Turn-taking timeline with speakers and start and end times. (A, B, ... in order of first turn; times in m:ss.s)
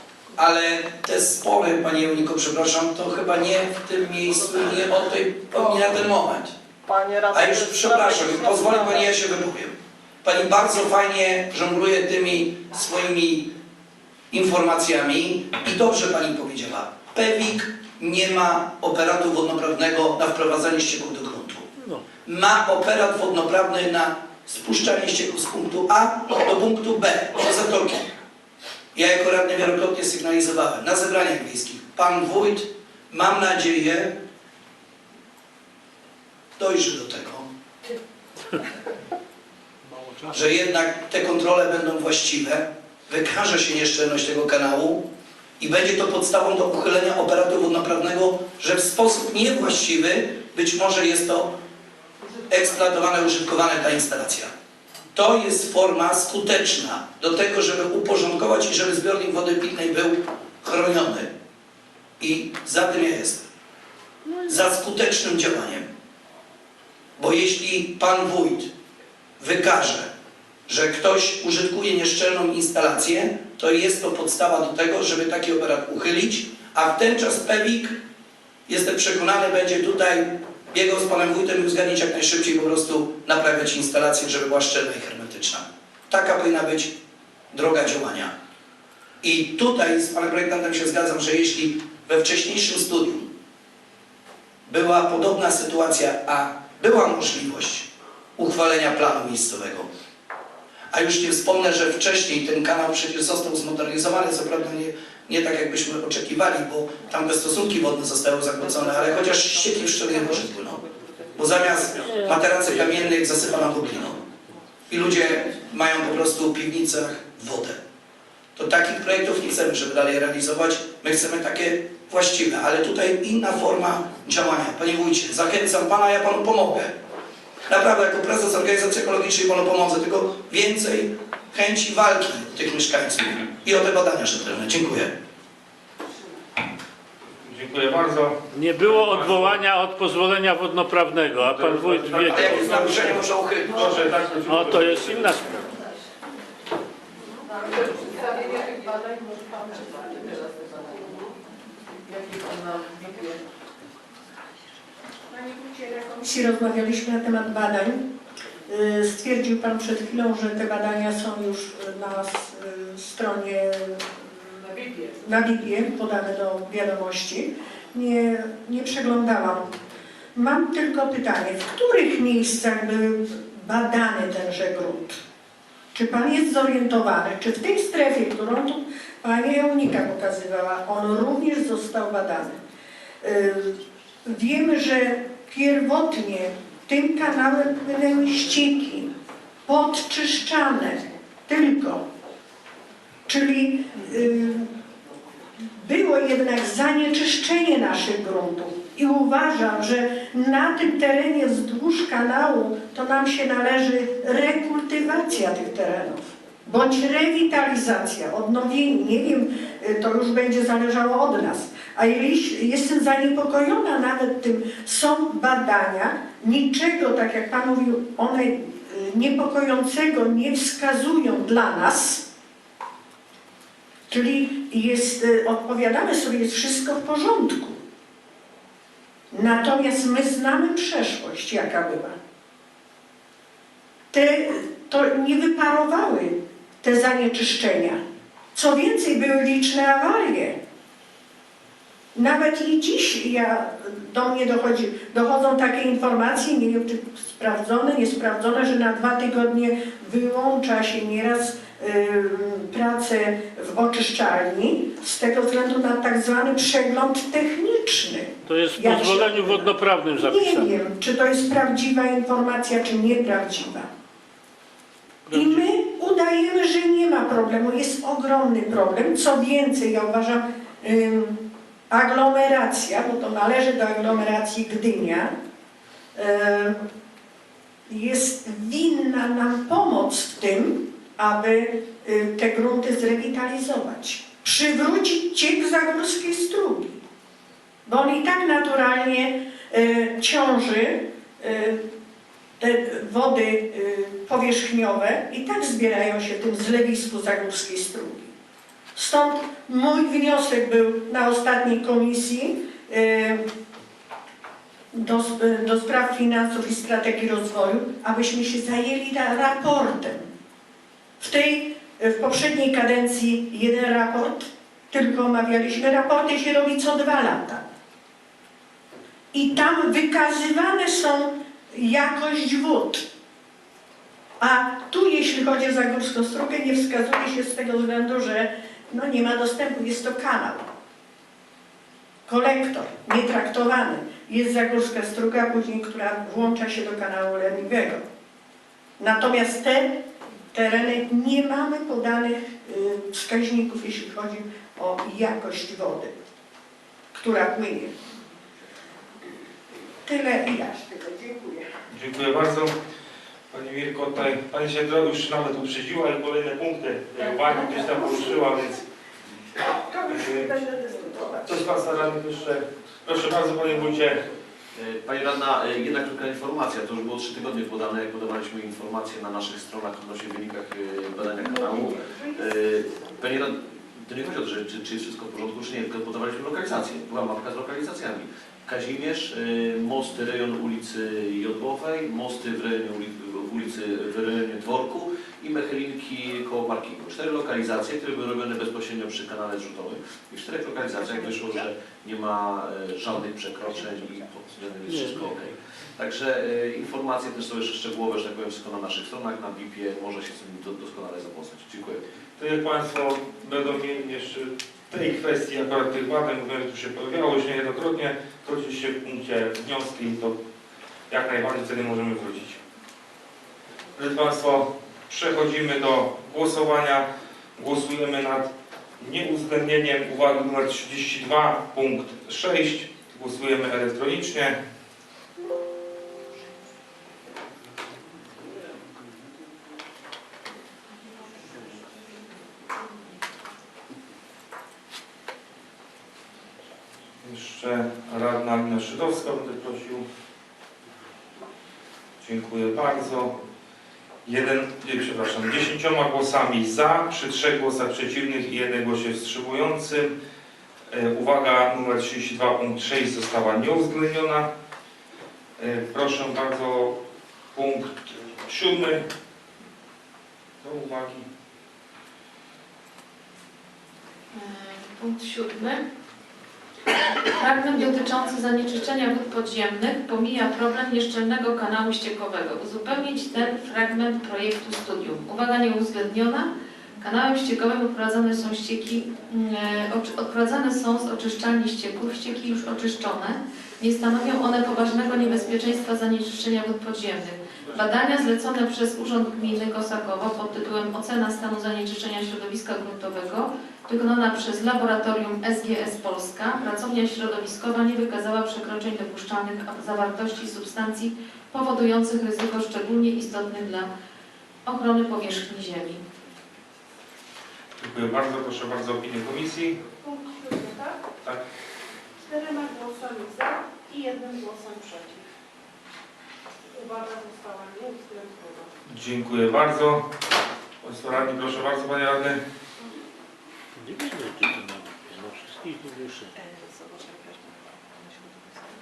0:00.4-0:06.6 A
0:06.9-0:09.1 B
0:07.3-0:13.5 A
0:14.3-0:21.7 A
0:21.8-0:22.0 C
0:22.3-0:28.1 A
0:28.9-0:34.2 A
0:36.6-0:37.5 A
0:39.9-0:40.4 C
0:40.3-0:51.6 A
0:52.5-0:54.5 A
0:55.1-1:01.3 A
1:02.2-1:03.5 A
1:04.5-1:05.9 A
1:07.2-1:08.7 A
1:09.4-1:10.1 A
1:10.7-1:18.0 A
1:18.7-1:26.9 A
1:27.5-1:28.3 A
1:29.2-1:33.3 A
1:34.7-1:39.9 A
1:40.9-1:50.8 A
1:48.6-1:52.1 B
1:51.4-1:54.2 A
1:52.0-1:54.1 C
1:54.9-1:57.8 A
1:58.6-2:06.9 A
2:07.7-2:15.1 A
2:17.5-2:19.6 D
2:18.5-2:23.2 C
2:21.4-2:25.4 D
2:22.3-2:24.1 A
2:24.4-2:25.7 C
2:27.6-2:31.0 E
2:32.1-2:33.4 E
2:35.5-2:38.1 F
2:38.7-2:49.7 F
2:50.4-2:55.2 F
2:55.9-3:02.6 F
3:03.2-3:09.1 F
3:09.7-3:12.0 F
3:13.3-3:14.7 F
3:15.7-3:42.2 F
3:44.1-3:47.8 F
3:49.3-3:52.2 F
3:54.1-3:58.0 F
3:58.5-4:00.6 F
4:02.1-4:23.9 F
4:18.5-4:20.7 C
4:25.3-4:25.7 C
4:25.3-4:35.3 F
4:36.1-4:36.8 F
4:37.9-4:47.0 F
4:47.9-4:51.9 F
4:52.6-4:58.3 F
4:59.0-5:03.4 F
5:04.9-5:10.3 F
5:11.2-5:17.6 F
5:19.3-5:23.1 F
5:24.4-5:30.7 F
5:32.3-5:38.0 F
5:39.0-5:46.1 F
5:47.1-5:48.0 F
5:50.0-5:51.7 F
5:51.9-5:52.7 D
5:53.5-5:58.8 D
5:57.6-5:58.2 F
5:59.7-6:01.6 F
6:00.1-6:00.5 D
6:01.4-6:04.2 D
6:04.7-6:42.0 G
6:34.9-6:35.5 C
6:42.4-6:50.4 D
6:51.1-6:52.6 D
6:54.0-7:04.6 D
7:17.2-7:20.0 D
7:22.2-7:23.3 D
7:24.2-7:30.1 D
7:30.9-7:34.5 D
7:35.6-7:37.0 D
7:37.5-7:39.0 D
7:40.6-7:41.3 D
7:44.3-7:45.8 H
7:47.3-8:23.9 H
8:24.7-8:26.0 H
8:27.8-8:29.8 D
8:38.9-8:40.1 D
8:40.8-8:42.4 D
8:43.8-8:46.4 C
8:46.4-8:48.6 B